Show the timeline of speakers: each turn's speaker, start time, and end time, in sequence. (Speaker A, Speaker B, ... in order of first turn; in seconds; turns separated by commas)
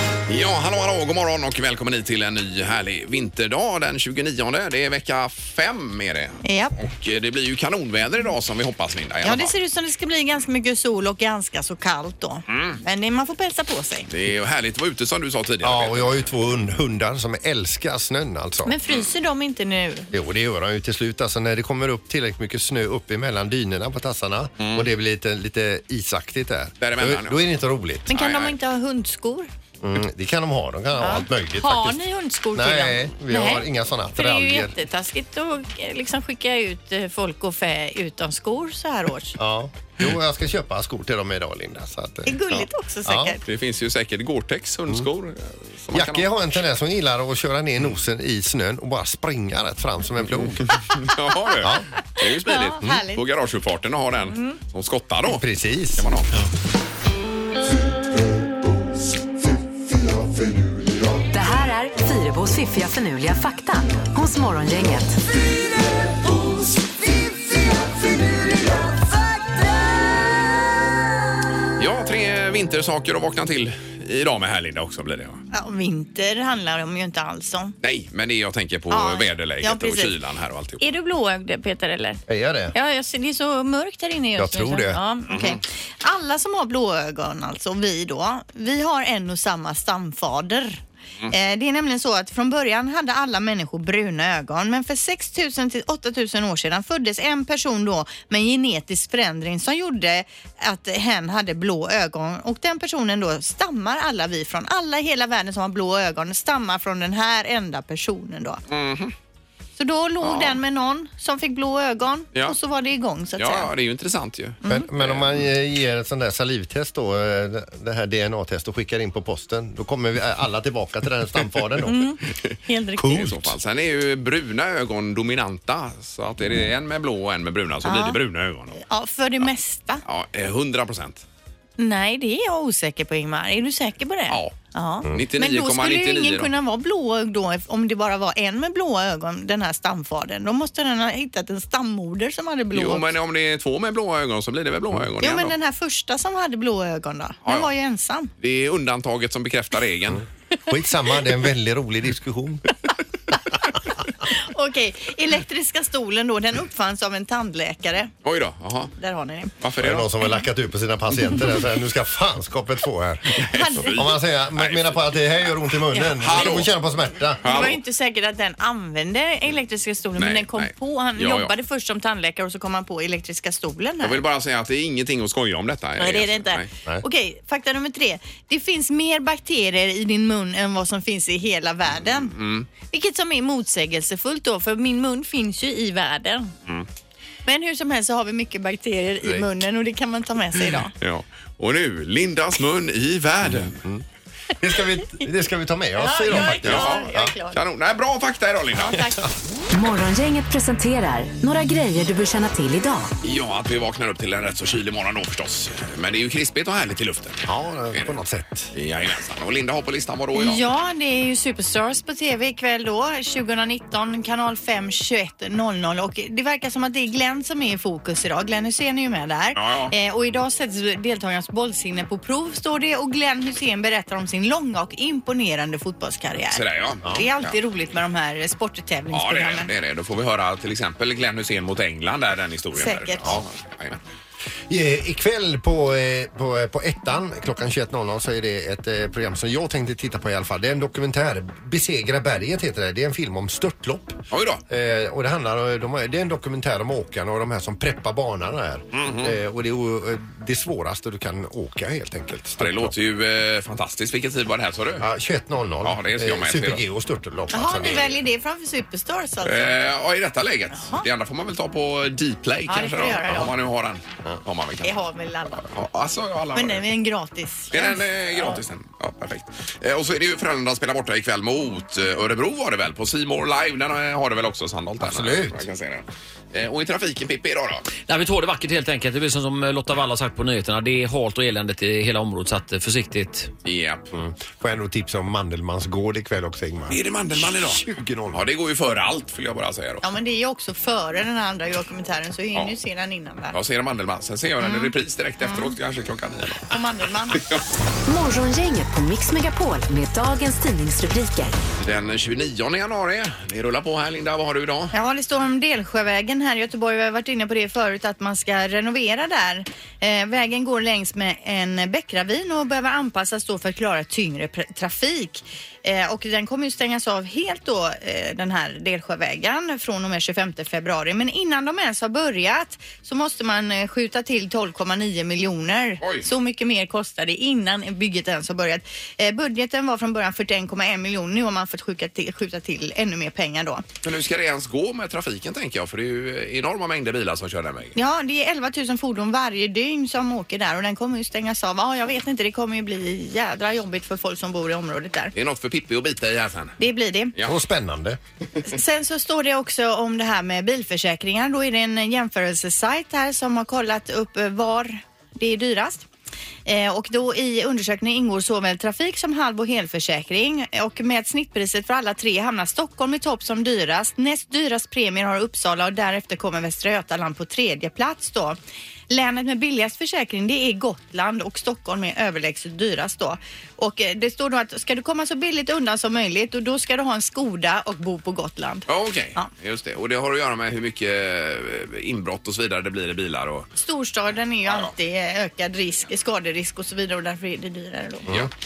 Speaker A: 0.3-9.5, Speaker B: 6.4-6.7, Speaker B: 9.2-14.1, Speaker A: 12.5-12.8, Speaker A: 14.1-16.3, Speaker C: 15.6-18.8, Speaker B: 18.6-20.1, Speaker C: 20.1-28.1, Speaker A: 24.6-24.9, Speaker A: 26.8-27.4, Speaker B: 28.1-29.5, Speaker A: 28.1-28.6, Speaker C: 29.8-34.7, Speaker B: 31.0-39.4, Speaker C: 39.4-42.4, Speaker B: 42.2-43.4, Speaker C: 43.0-43.4, Speaker A: 43.5-46.5, Speaker C: 45.9-50.8, Speaker A: 50.2-56.3, Speaker C: 51.6-51.9, Speaker B: 52.5-53.2, Speaker B: 54.2-54.6, Speaker C: 55.2-56.1, Speaker D: 61.3-65.2, Speaker A: 71.8-75.4, Speaker B: 75.5-77.7, Speaker A: 77.8-80.8, Speaker B: 78.9-80.2, Speaker B: 80.8-108.6, Speaker C: 82.3-82.7, Speaker C: 84.4-85.0, Speaker A: 85.3-85.6, Speaker A: 108.7-109.1, Speaker B: 109.8-113.7, Speaker A: 110.2-110.6, Speaker A: 113.3-115.5, Speaker B: 114.6-114.9, Speaker C: 114.7-122.1, Speaker B: 121.8-123.2, Speaker C: 123.0-123.5, Speaker A: 123.1-128.8, Speaker B: 127.8-128.2, Speaker B: 128.8-130.0, Speaker A: 130.0-131.2, Speaker B: 131.8-143.1, Speaker A: 134.3-134.5, Speaker A: 135.1-136.5, Speaker A: 142.7-145.6, Speaker B: 145.2-148.3, Speaker A: 147.4-147.7, Speaker A: 148.4-150.2, Speaker C: 150.7-152.6, Speaker B: 154.2-158.1, Speaker A: 158.2-158.9, Speaker B: 159.0-159.5, Speaker A: 159.6-160.1, Speaker C: 159.8-167.4, Speaker A: 163.3-165.6, Speaker B: 163.5-164.1, Speaker B: 165.9-166.7, Speaker A: 166.2-166.7, Speaker A: 167.4-167.8, Speaker B: 167.4-174.2, Speaker A: 170.2-171.5, Speaker A: 174.0-176.7, Speaker B: 176.0-186.5, Speaker A: 182.2-182.7, Speaker B: 187.4-190.9, Speaker A: 191.0-193.8, Speaker C: 193.4-194.0, Speaker C: 194.6-197.3, Speaker B: 195.9-197.6, Speaker A: 196.3-199.0, Speaker B: 198.7-199.2, Speaker D: 199.7-203.1, Speaker A: 203.2-208.2, Speaker C: 207.4-208.7, Speaker A: 208.7-210.6, Speaker B: 210.3-229.7, Speaker A: 219.5-219.9, Speaker A: 226.5-227.5, Speaker A: 229.1-234.0, Speaker B: 232.7-233.4, Speaker C: 234.7-244.2, Speaker A: 244.3-244.6, Speaker C: 244.7-252.9, Speaker A: 248.9-249.4, Speaker A: 252.6-255.0, Speaker C: 255.0-258.1, Speaker A: 255.8-256.8, Speaker B: 257.5-259.8, Speaker A: 259.4-264.9, Speaker B: 260.7-261.1, Speaker B: 262.6-263.5, Speaker B: 264.8-265.7, Speaker A: 265.6-266.8, Speaker B: 266.5-268.6, Speaker A: 267.7-277.9, Speaker C: 275.0-275.6, Speaker E: 278.1-283.5, Speaker A: 283.6-284.1, Speaker C: 284.1-288.4, Speaker A: 286.9-290.0, Speaker B: 290.0-293.6, Speaker A: 293.5-296.7, Speaker B: 294.6-295.7, Speaker B: 296.6-297.4, Speaker A: 297.3-297.6, Speaker D: 298.1-301.5, Speaker A: 301.8-304.9, Speaker B: 304.9-333.8, Speaker A: 326.0-326.3, Speaker A: 334.0-337.9, Speaker B: 337.9-345.3, Speaker A: 345.3-346.8, Speaker B: 346.8-347.3, Speaker C: 347.4-348.2, Speaker B: 348.6-356.1, Speaker B: 356.6-368.6, Speaker B: 369.1-379.5, Speaker A: 378.9-383.7, Speaker B: 383.8-388.4